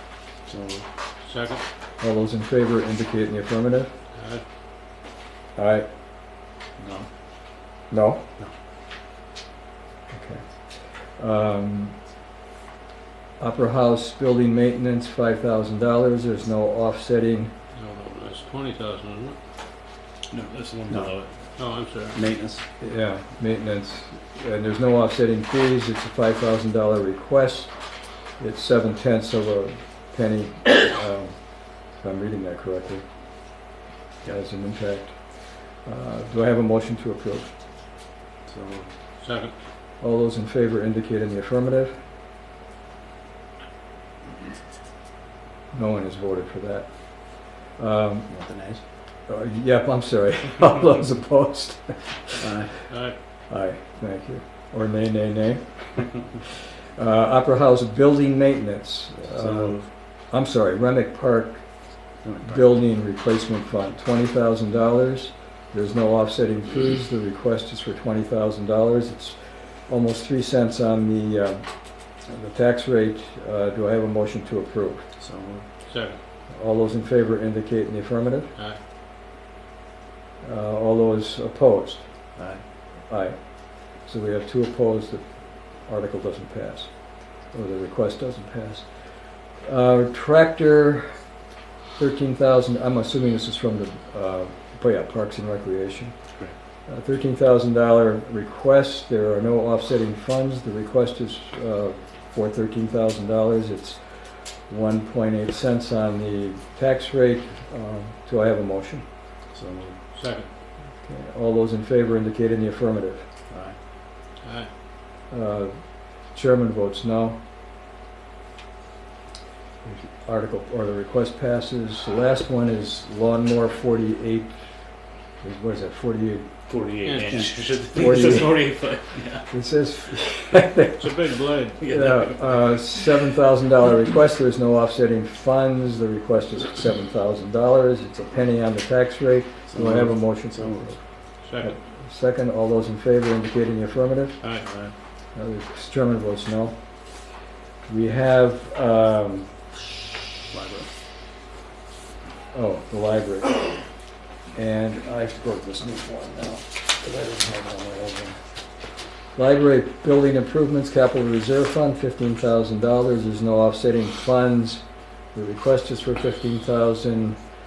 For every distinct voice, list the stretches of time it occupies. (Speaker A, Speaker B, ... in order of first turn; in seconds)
Speaker A: 0.5-0.8, 6.8-7.1, 20.3-21.2, 22.0-22.6, 38.5-38.9, 48.3-48.8, 52.4-52.8, 59.3-59.9, 62.2-62.7, 75.2-75.6, 82.3-82.6, 109.5-110.0, 113.5-113.8, 127.3-128.1, 139.7-140.9, 144.6-144.9, 150.5-150.9
Speaker B: 1.2-1.6, 4.1-4.4, 17.7-19.4, 21.6-22.2, 39.2-39.5, 52.9-53.1, 75.9-76.2, 110.1-110.5, 114.4-114.7, 127.0-127.4, 131.0-131.8, 141.4-141.8
Speaker C: 2.0-3.9, 5.5-5.9, 7.9-8.2, 10.1-12.0, 13.4-17.5, 22.8-27.8, 28.3-33.0, 34.2-37.5, 40.0-41.9, 45.7-48.3, 49.2-52.4, 53.5-61.7, 62.4-75.0, 76.5-78.5, 80.4-82.0, 83.1-91.2, 92.0-109.0, 111.0-113.2, 115.3-117.4, 119.8-124.7, 125.3-126.5, 128.0-128.8, 129.5-131.2, 131.8-144.4, 145.3-146.8, 147.9-149.5, 152.5-153.8, 154.5-158.4, 159.3-167.4
Speaker D: 20.3-21.4, 126.7-129.5, 131.8-132.7